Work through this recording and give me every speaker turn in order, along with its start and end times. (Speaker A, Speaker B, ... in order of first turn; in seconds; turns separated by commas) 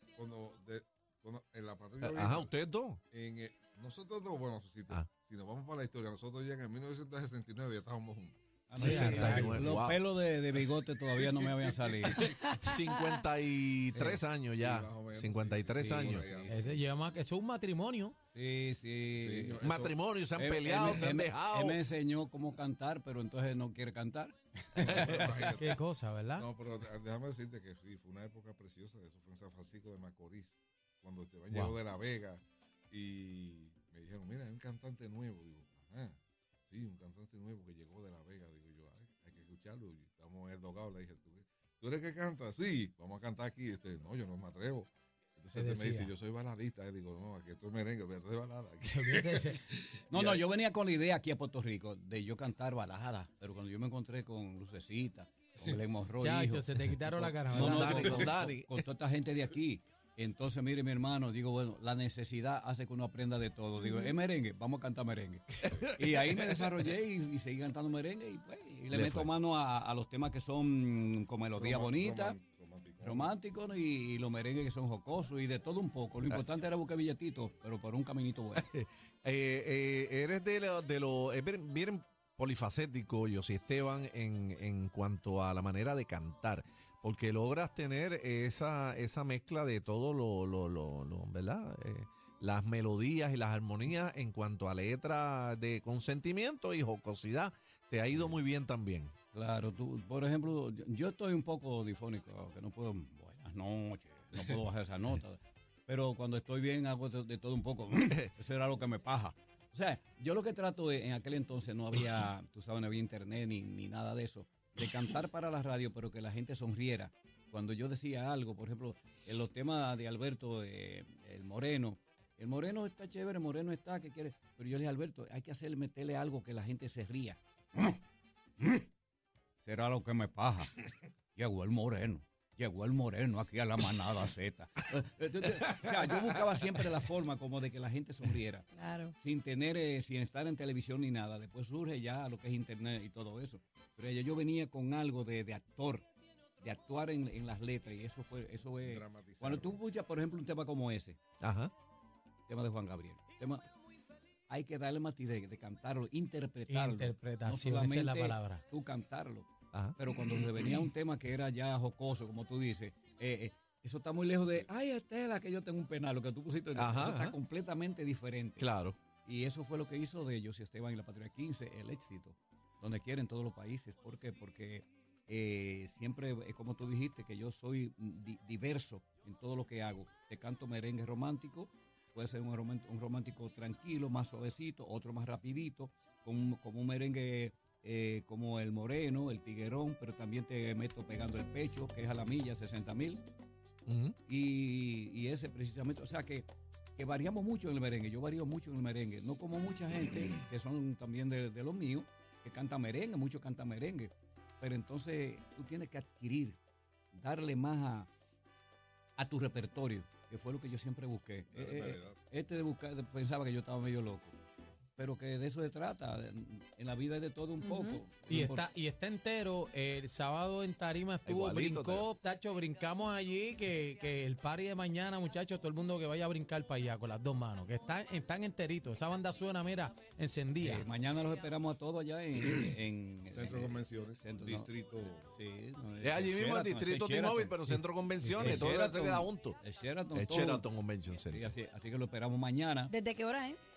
Speaker A: 0.1-2.5, Speaker B: 2.0-3.0, Speaker A: 3.1-9.7, Speaker C: 8.7-12.3, Speaker D: 8.7-9.6, Speaker B: 8.7-10.0, Speaker A: 11.1-12.4, Speaker E: 12.2-13.2, Speaker B: 12.4-16.3, Speaker C: 13.9-14.2, Speaker A: 14.6-16.8, Speaker C: 15.7-16.7, Speaker D: 16.4-18.1, Speaker C: 18.3-19.6, Speaker A: 19.1-20.0, Speaker B: 19.6-21.8, Speaker C: 20.4-25.4, Speaker A: 24.8-25.8, Speaker D: 25.5-26.5, Speaker A: 26.4-36.2, Speaker D: 31.5-31.8, Speaker A: 36.7-50.4, Speaker D: 45.5-46.1, Speaker D: 48.8-49.6, Speaker C: 50.1-72.4, Speaker D: 56.2-58.3, Speaker B: 57.5-58.8, Speaker B: 65.7-66.7, Speaker B: 68.9-69.3, Speaker A: 71.5-73.3, Speaker C: 73.0-78.7, Speaker B: 78.5-99.1, Speaker C: 98.1-98.4, Speaker C: 99.3-128.0, Speaker C: 129.6-130.7, Speaker C: 131.3-138.7, Speaker B: 135.6-136.8, Speaker E: 138.7-139.1, Speaker C: 139.2-146.1, Speaker C: 146.6-151.2, Speaker A: 148.8-149.8, Speaker B: 151.4-151.7, Speaker C: 152.5-153.6, Speaker C: 154.5-168.7, Speaker D: 156.7-158.6, Speaker B: 166.7-167.4, Speaker B: 168.6-169.0, Speaker C: 169.2-193.2, Speaker B: 193.8-194.2, Speaker C: 194.3-206.6, Speaker C: 207.1-208.1, Speaker C: 209.2-214.3, Speaker A: 211.5-212.2, Speaker C: 215.0-218.7, Speaker E: 217.6-218.0, Speaker D: 218.3-230.9, Speaker B: 221.2-222.1, Speaker C: 230.6-234.7, Speaker A: 233.2-235.2, Speaker C: 235.3-242.9, Speaker B: 236.0-239.6, Speaker B: 240.1-241.5, Speaker E: 242.9-243.6